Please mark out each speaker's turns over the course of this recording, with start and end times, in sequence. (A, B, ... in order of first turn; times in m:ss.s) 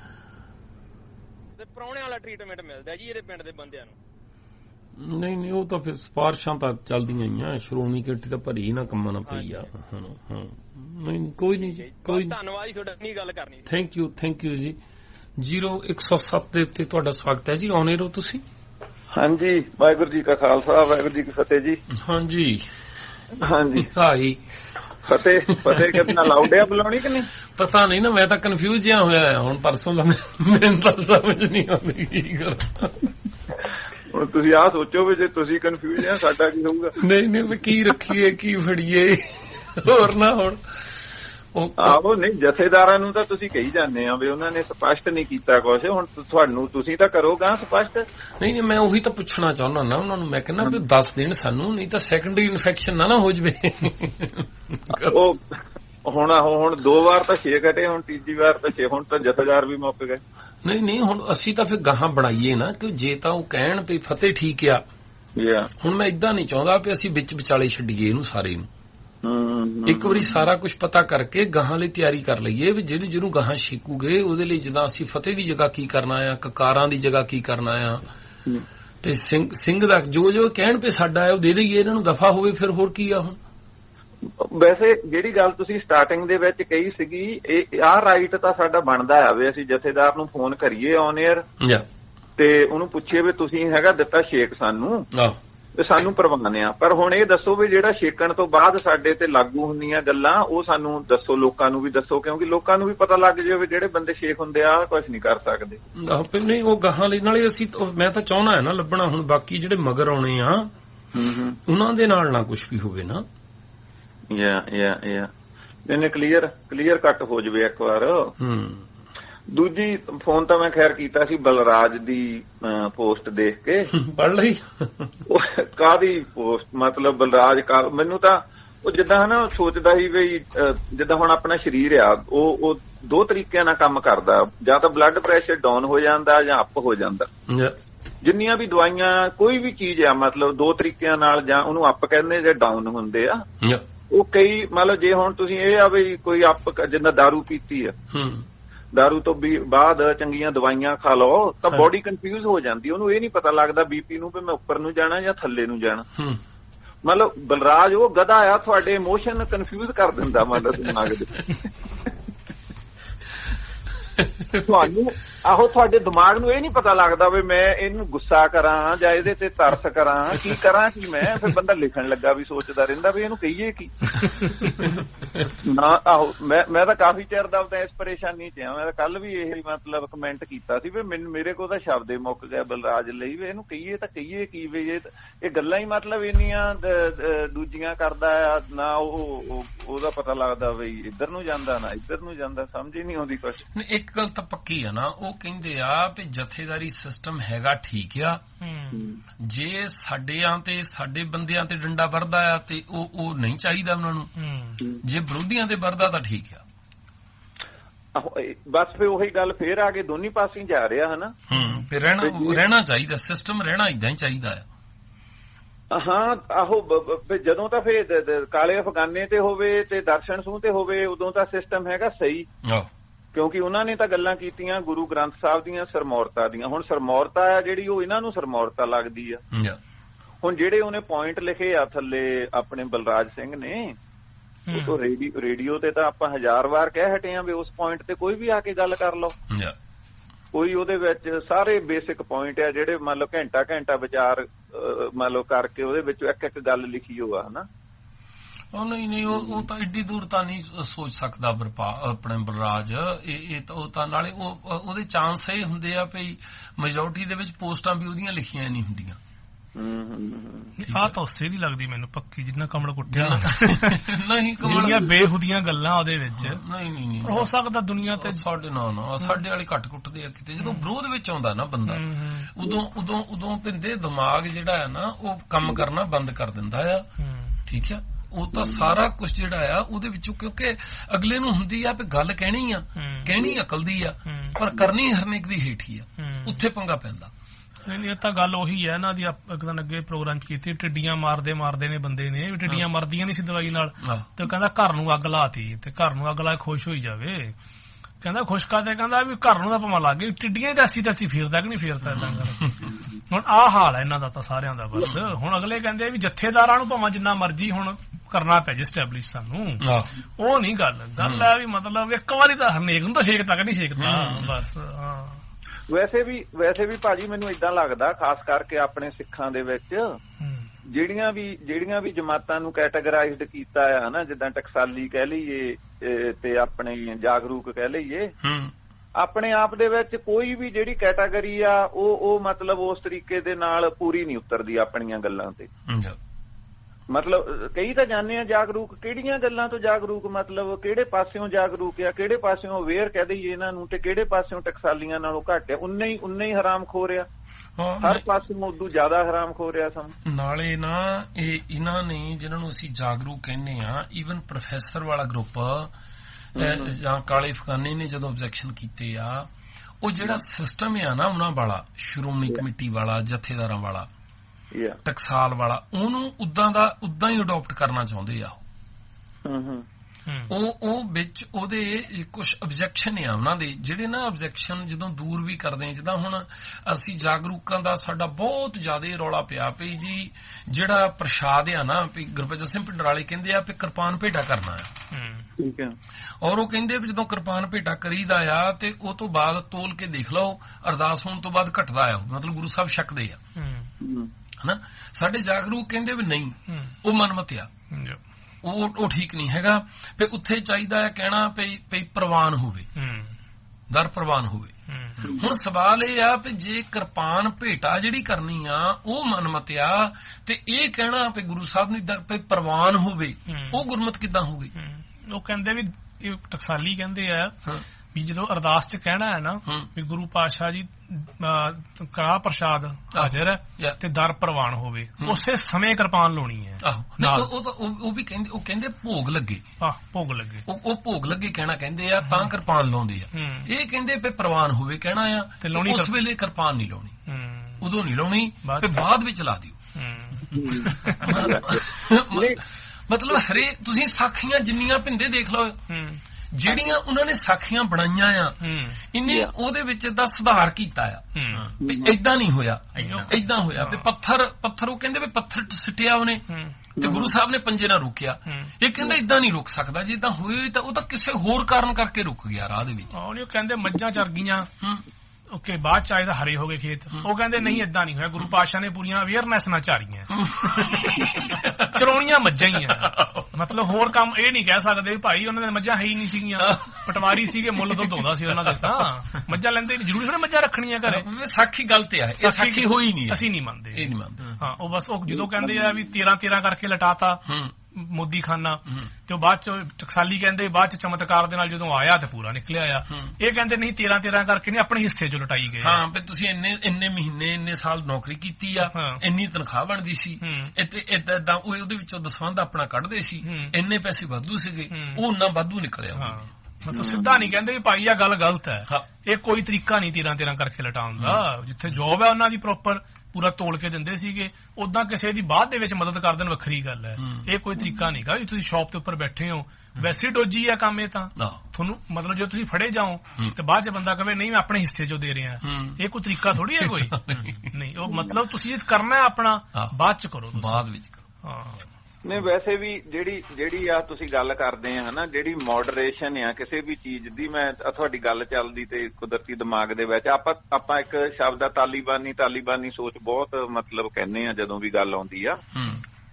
0:01.6-0:04.0 A
0:05.0-0:12.4 B
0:09.3-0:09.6 A
0:11.7-0:13.7 A
0:13.7-0:14.8 B
0:15.4-0:18.4 B
0:19.1-0:21.8 C
0:21.9-0:22.7 B
0:23.4-0:23.9 C
0:23.8-0:24.4 B
0:25.1-0:27.3 C
0:25.6-0:26.2 B
0:27.5-0:33.1 B
0:34.1-0:37.0 C
0:37.0-0:42.0 B
0:41.8-0:48.0 C
0:48.4-0:55.2 B
0:55.1-0:55.5 C
0:56.0-1:00.2 C
1:00.6-1:04.8 B
1:05.4-1:05.7 C
1:05.8-1:08.7 B
1:09.2-1:10.4 C
1:09.9-1:18.0 B
1:19.0-1:23.4 B
1:24.3-1:31.4 C
1:32.4-1:35.1 C
1:35.8-1:45.8 C
1:46.0-1:50.7 B
1:51.2-1:51.6 C
1:51.7-1:53.2 B
1:54.3-1:55.3 C
1:55.9-1:58.3 C
1:58.4-1:58.9 B
1:59.5-2:03.9 C
2:03.9-2:05.1 B
2:05.3-2:17.3 C
2:17.5-2:17.8 B
2:18.2-2:23.4 C
2:24.1-2:28.0 C
2:28.1-2:28.5 B
2:28.9-2:36.1 C
2:37.0-2:41.7 C
2:44.5-2:54.6 C
2:55.4-3:13.6 C
3:13.7-3:18.4 B
3:18.6-3:19.1 D
3:19.4-3:24.3 B
3:24.4-3:24.8 D
3:25.0-3:26.6 B
3:28.2-3:31.3 C
3:31.5-3:34.7 B
3:32.2-3:32.6 C
3:35.9-3:42.5 C
3:43.3-3:49.4 C
3:49.5-3:49.8 B
3:50.4-3:54.0 C
3:54.7-3:55.0 D
3:54.7-3:59.4 C
4:00.5-4:07.7 C
4:08.7-4:19.2 B
4:09.3-4:09.6 C
4:19.8-4:20.8 C
4:20.8-4:24.1 D
4:20.9-4:21.2 B
4:23.1-4:25.1 B
4:24.6-4:26.6 D
4:26.4-4:27.5 B
4:27.2-4:28.4 D
4:28.1-4:37.1 B
4:30.6-4:30.9 D
4:31.9-4:32.5 D
4:37.2-4:37.6 D
4:37.7-4:47.3 B
4:43.0-4:43.4 D
4:44.3-4:44.6 D
4:46.2-4:46.6 D
4:47.9-4:57.6 D
4:54.0-4:54.3 B
4:58.2-5:09.8 D
5:02.0-5:02.9 B
5:09.8-5:10.1 B
5:10.4-5:15.4 D
5:11.2-5:11.5 B
5:14.0-5:14.5 B
5:15.9-5:20.0 C
5:20.4-5:20.7 D
5:20.9-5:28.3 C
5:28.4-5:28.7 B
5:29.2-5:35.7 C
5:35.9-5:36.2 B
5:37.1-5:47.3 C
5:47.8-5:48.2 B
5:48.0-5:50.2 C
5:50.2-5:55.9 B
5:56.6-5:59.5 B
5:56.6-5:56.9 C
6:00.0-6:04.1 B
6:04.7-6:05.0 C
6:05.0-6:08.6 B
6:09.4-6:09.8 C
6:10.3-6:10.5 D
6:10.5-6:24.9 B
6:25.1-6:25.5 D
6:25.6-6:26.0 C
6:26.4-6:33.4 B
6:33.6-6:33.9 D
6:34.0-6:34.3 C
6:34.6-6:37.7 B
6:36.7-6:37.0 D
6:37.9-6:38.2 D
6:38.6-6:42.9 B
6:43.0-6:43.4 D
6:43.9-6:54.7 B
6:44.9-6:45.3 D
6:53.5-6:53.8 D
6:54.8-7:07.5 D
7:03.1-7:04.0 B
7:06.8-7:09.6 B
7:09.8-7:10.6 D
7:10.7-7:17.2 B
7:13.4-7:13.7 D
7:15.6-7:16.1 D
7:17.3-7:17.8 D
7:17.8-7:19.8 B
7:18.6-7:19.0 D
7:20.0-7:21.5 D
7:20.6-7:22.6 C
7:21.1-7:25.8 B
7:25.9-7:26.2 D
7:26.5-7:36.5 B
7:28.6-7:29.0 D
7:31.4-7:31.7 D
7:31.8-7:32.1 C
7:33.0-7:34.1 D
7:36.5-7:36.8 D
7:37.0-7:43.1 B
7:37.0-7:37.3 C
7:43.1-7:44.7 D
7:45.5-7:50.4 D
7:50.4-7:52.0 B
7:51.1-8:01.2 D
7:52.8-7:53.6 B
7:56.6-7:58.1 B
8:01.0-8:04.5 B
8:02.4-8:16.0 D
8:07.5-8:07.7 B
8:13.1-8:13.4 B
8:15.8-8:27.0 B
8:18.8-8:19.2 D
8:20.4-8:20.7 D
8:23.4-8:23.7 D
8:24.9-8:25.2 D
8:26.2-8:50.8 D
8:26.9-8:27.4 C
8:31.2-8:31.4 B
8:37.2-8:37.5 B
8:41.4-8:41.6 B
8:45.6-8:47.7 B
8:50.5-8:51.2 B
8:51.4-8:51.8 D
8:52.2-9:05.6 C
9:05.8-9:06.0 B